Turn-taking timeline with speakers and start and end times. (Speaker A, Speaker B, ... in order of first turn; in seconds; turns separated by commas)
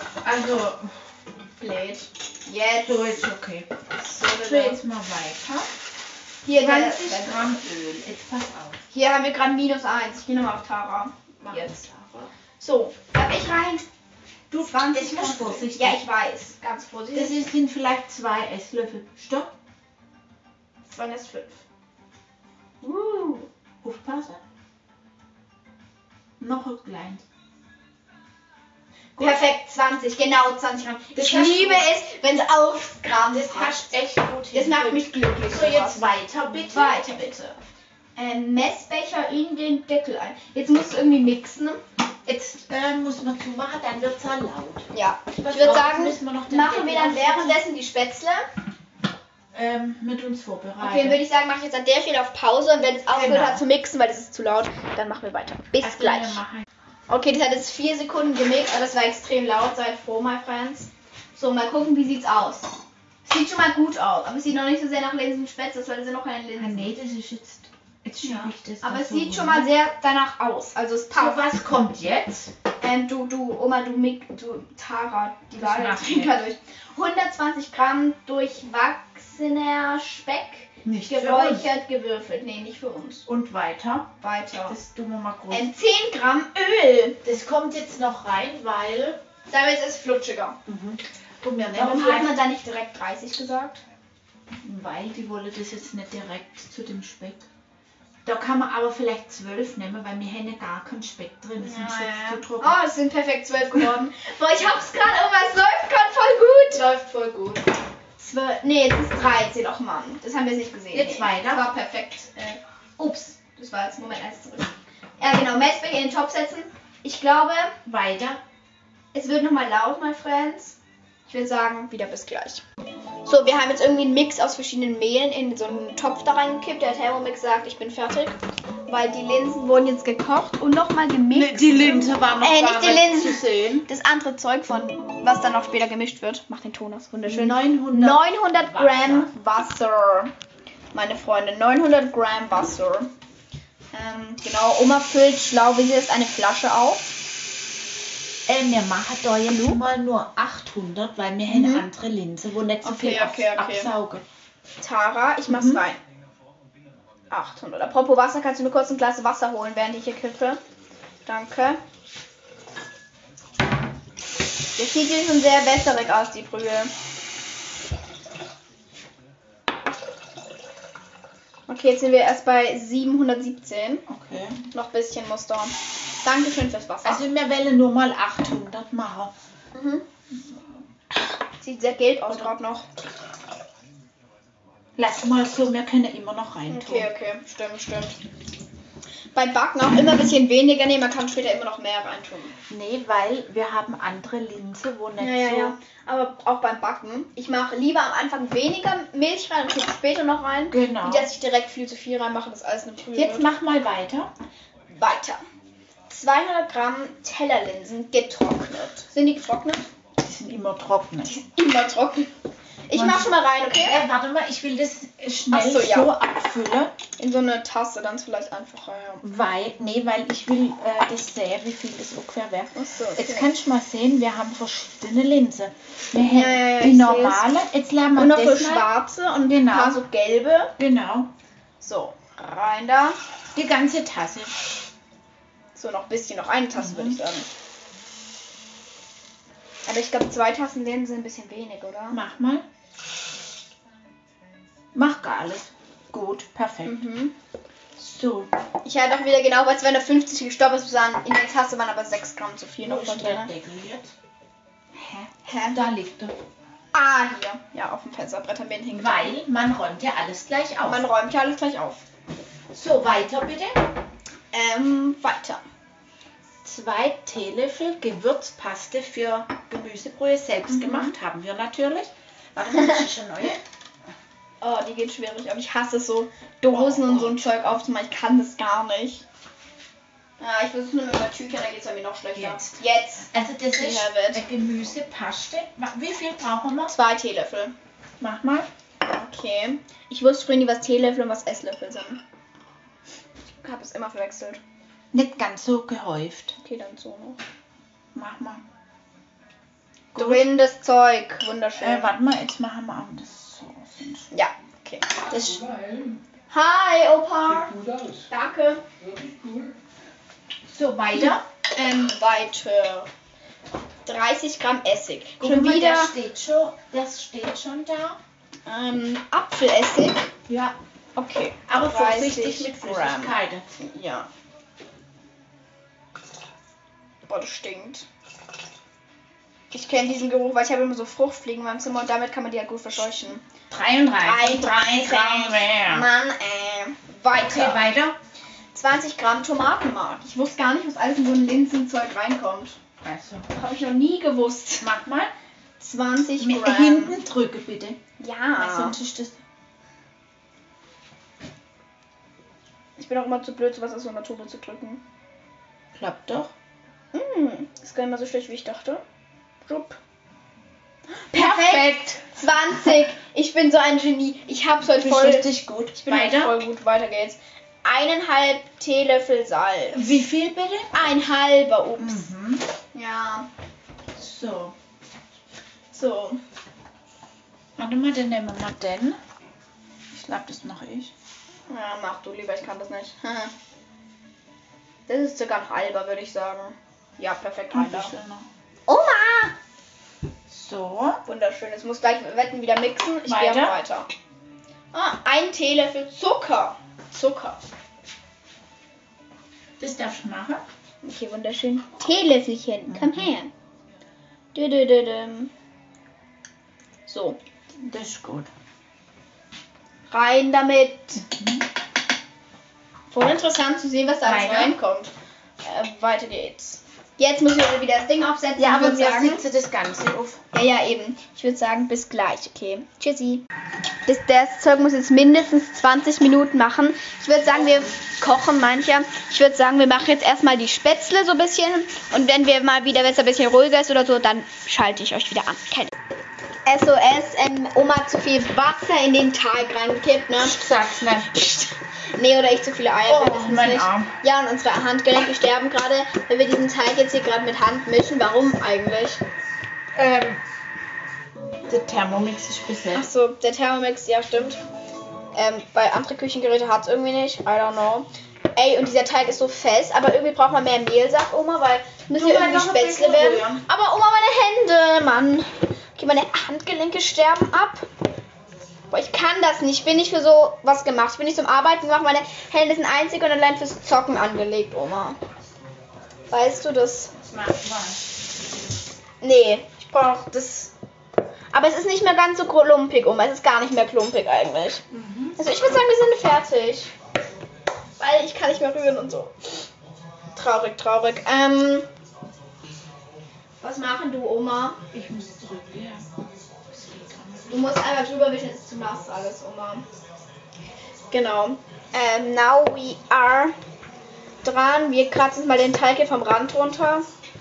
Speaker A: 0.2-0.9, Speaker B: 1.6-3.2, Speaker A: 2.9-3.7, Speaker B: 4.0-4.8, Speaker A: 4.2-5.7, Speaker B: 6.4-7.6, Speaker A: 6.6-8.8, Speaker B: 8.9-11.9, Speaker A: 11.4-12.3, Speaker B: 12.6-13.9, Speaker A: 14.5-16.0, Speaker B: 14.6-17.4, Speaker A: 17.1-19.5, Speaker B: 20.9-21.6, Speaker B: 22.8-23.5, Speaker A: 23.8-24.4, Speaker A: 26.4-27.2, Speaker B: 29.2-33.9, Speaker A: 31.1-31.9, Speaker A: 33.3-37.0, Speaker B: 34.5-36.0, Speaker B: 36.7-37.6, Speaker B: 38.2-41.8, Speaker A: 42.3-44.9, Speaker B: 44.9-48.5, Speaker A: 45.4-47.6, Speaker A: 49.5-51.2, Speaker B: 50.8-56.4, Speaker A: 53.1-53.6, Speaker A: 55.8-56.7, Speaker B: 57.1-62.7, Speaker B: 63.2-66.9, Speaker A: 66.6-69.7, Speaker B: 68.2-71.4, Speaker A: 71.1-72.5, Speaker B: 72.8-83.3, Speaker A: 75.6-76.3, Speaker A: 80.8-81.7, Speaker A: 83.3-84.1, Speaker B: 84.2-84.8, Speaker A: 84.7-85.7, Speaker B: 85.5-87.2, Speaker A: 87.2-89.2, Speaker B: 89.5-90.6, Speaker A: 90.7-92.4, Speaker B: 91.7-93.8, Speaker A: 94.6-97.5, Speaker A: 98.2-102.8, Speaker B: 101.6-106.9, Speaker A: 106.8-107.6, Speaker B: 108.2-117.8, Speaker A: 110.9-111.7, Speaker A: 117.9-118.4, Speaker B: 119.1-122.6, Speaker B: 123.2-128.4, Speaker B: 128.9-140.3, Speaker A: 131.3-133.9, Speaker A: 137.3-139.3, Speaker B: 140.9-143.1, Speaker B: 143.9-147.1, Speaker A: 148.5-154.2, Speaker B: 151.5-151.9, Speaker B: 152.8-153.9, Speaker B: 154.8-156.0, Speaker A: 155.5-155.8, Speaker B: 157.3-160.6, Speaker B: 161.3-161.8, Speaker B: 164.8-166.9, Speaker B: 171.7-174.0, Speaker A: 174.1-174.6, Speaker B: 174.7-177.2, Speaker A: 177.0-179.3, Speaker B: 179.7-180.0, Speaker B: 181.6-182.9, Speaker A: 185.0-187.1, Speaker B: 186.7-188.2, Speaker B: 189.3-192.6, Speaker A: 192.7-195.8, Speaker B: 195.2-203.5, Speaker A: 200.7-201.3, Speaker A: 203.2-204.3, Speaker B: 204.9-205.4, Speaker B: 206.1-209.9, Speaker A: 210.2-211.3, Speaker B: 211.2-212.3, Speaker B: 212.9-214.0, Speaker A: 212.9-216.9, Speaker B: 215.5-216.1, Speaker B: 217.2-219.2, Speaker A: 219.2-228.9, Speaker B: 222.7-223.5, Speaker B: 226.2-227.4, Speaker B: 228.2-230.7, Speaker A: 229.5-230.0, Speaker A: 230.8-231.3, Speaker B: 231.8-233.2, Speaker A: 233.6-234.5, Speaker B: 235.8-237.5, Speaker A: 236.8-237.2, Speaker B: 239.9-242.2, Speaker A: 242.1-242.7, Speaker A: 244.9-247.0, Speaker B: 246.8-247.3, Speaker A: 248.0-248.5, Speaker B: 248.8-253.5, Speaker A: 252.8-254.1, Speaker A: 254.9-256.4, Speaker B: 255.5-255.8, Speaker B: 256.9-259.4, Speaker A: 258.9-261.0, Speaker B: 260.8-262.0, Speaker A: 262.7-263.8, Speaker B: 264.5-265.6, Speaker A: 266.6-273.6, Speaker B: 270.7-271.1, Speaker B: 274.6-279.2, Speaker A: 276.7-277.4, Speaker B: 280.4-284.4, Speaker A: 282.4-282.8, Speaker A: 283.3-286.9, Speaker B: 286.9-287.7, Speaker A: 288.2-288.7, Speaker B: 289.0-292.2, Speaker B: 293.6-294.6, Speaker A: 295.1-296.6, Speaker B: 296.6-297.4, Speaker A: 298.1-298.6, Speaker A: 300.1-300.4, Speaker B: 300.2-302.1, Speaker A: 301.8-304.3, Speaker B: 304.3-305.6, Speaker C: 305.3-306.2, Speaker B: 306.5-307.7, Speaker C: 307.5-308.3, Speaker B: 308.3-308.8, Speaker C: 309.0-309.8, Speaker A: 310.7-311.4, Speaker B: 311.2-313.1, Speaker B: 314.1-316.1, Speaker A: 315.4-318.2, Speaker B: 318.7-320.3, Speaker A: 320.5-320.8, Speaker B: 321.2-324.3, Speaker A: 321.7-323.6, Speaker B: 327.3-328.1, Speaker B: 329.7-333.4, Speaker A: 333.7-336.1, Speaker B: 334.2-337.9, Speaker A: 337.3-338.1, Speaker B: 338.7-342.8, Speaker A: 343.0-343.5, Speaker B: 343.5-344.9, Speaker A: 344.8-345.3, Speaker B: 345.8-347.2, Speaker A: 346.4-348.0, Speaker B: 348.2-349.0, Speaker A: 348.6-349.4, Speaker B: 353.0-355.0, Speaker A: 356.0-356.5, Speaker B: 357.1-359.0, Speaker B: 359.6-360.0, Speaker B: 361.3-370.2, Speaker A: 361.3-362.2, Speaker A: 365.0-366.6, Speaker A: 369.9-370.9, Speaker B: 370.9-372.3, Speaker A: 372.0-372.6, Speaker B: 372.9-373.5, Speaker A: 374.2-374.8, Speaker B: 375.9-376.4, Speaker A: 377.8-379.2, Speaker A: 380.1-381.1, Speaker B: 381.7-383.5, Speaker B: 385.1-388.1, Speaker A: 387.7-388.5, Speaker B: 388.9-389.5, Speaker A: 390.5-391.2, Speaker B: 391.3-394.1, Speaker A: 393.3-393.7, Speaker B: 394.9-397.6, Speaker A: 399.8-400.6, Speaker B: 401.0-403.5, Speaker A: 402.9-403.3, Speaker B: 404.6-405.5, Speaker B: 407.1-407.4, Speaker A: 407.8-408.5, Speaker B: 410.1-411.2, Speaker A: 411.2-411.6, Speaker B: 413.1-415.1, Speaker A: 414.2-414.8, Speaker B: 415.6-419.4, Speaker A: 418.6-420.4, Speaker B: 420.5-423.4, Speaker B: 424.1-435.9, Speaker B: 436.7-440.6, Speaker A: 440.4-441.3, Speaker B: 441.4-449.2, Speaker A: 443.1-444.1, Speaker A: 450.0-450.4, Speaker A: 451.7-453.1, Speaker B: 452.9-454.6, Speaker B: 455.4-467.9, Speaker A: 462.1-463.6, Speaker B: 468.9-475.2, Speaker B: 476.3-477.1, Speaker A: 477.2-478.0, Speaker B: 479.2-480.7, Speaker B: 481.5-484.8, Speaker A: 484.9-485.4, Speaker B: 485.4-486.9, Speaker B: 488.0-489.3, Speaker B: 490.4-491.9, Speaker B: 493.6-494.8, Speaker A: 494.9-496.1, Speaker A: 496.7-497.7, Speaker B: 497.5-499.8, Speaker B: 501.1-503.5, Speaker B: 504.4-507.1